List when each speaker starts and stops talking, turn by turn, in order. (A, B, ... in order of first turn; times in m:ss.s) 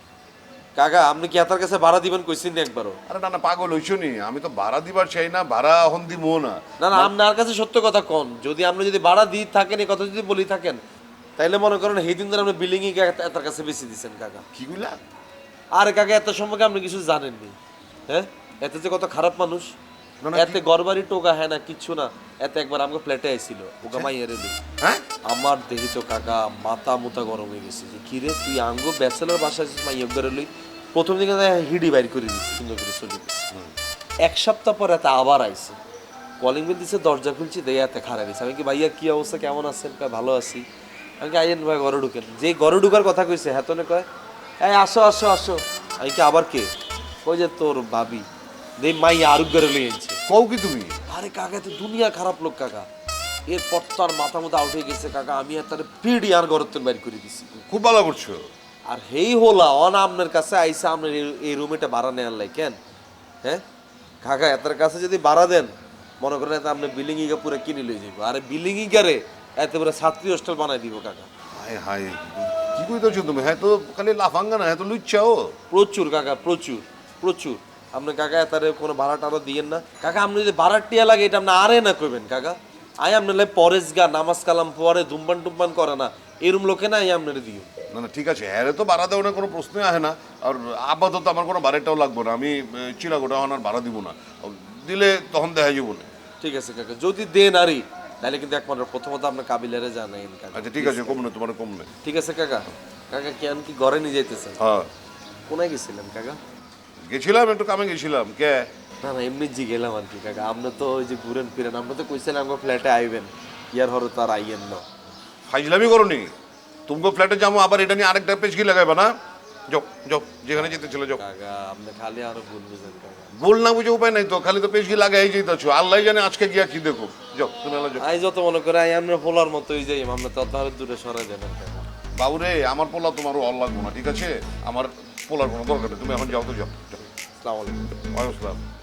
0:00.8-0:03.0 A
0:03.1-0:07.1 B
0:06.8-0:10.8 A
0:11.4-0:14.4 A
0:14.5-0:15.0 B
0:15.7-0:17.6 A
0:18.1-0:19.7 A
0:20.2-0:20.6 B
0:20.3-0:24.6 A
0:25.2-0:33.5 A
0:34.2-0:35.8 A
0:36.4-0:40.6 A
0:41.2-0:44.1 A
0:44.6-0:46.7 A
0:47.2-0:48.3 A
0:48.8-0:50.2 A
0:50.3-0:51.0 B
0:51.1-0:52.9 A
0:53.5-0:57.5 A
0:57.6-0:58.4 B
0:58.8-1:02.8 A
1:04.2-1:11.3 A
1:11.5-1:15.5 B
1:15.7-1:27.7 A
1:27.9-1:36.1 B
1:36.4-1:41.2 A
1:40.5-1:41.9 B
1:42.0-1:44.6 A
1:44.6-1:44.9 B
1:45.5-1:46.4 A
1:47.1-1:48.7 B
1:49.0-1:54.8 A
1:55.5-1:56.3 B
1:56.9-1:59.1 B
1:59.7-2:01.2 B
2:01.2-2:03.3 A
2:03.3-2:08.0 B
2:08.0-2:11.9 A
2:12.2-2:17.0 B
2:17.4-2:17.9 A
2:18.1-2:18.6 B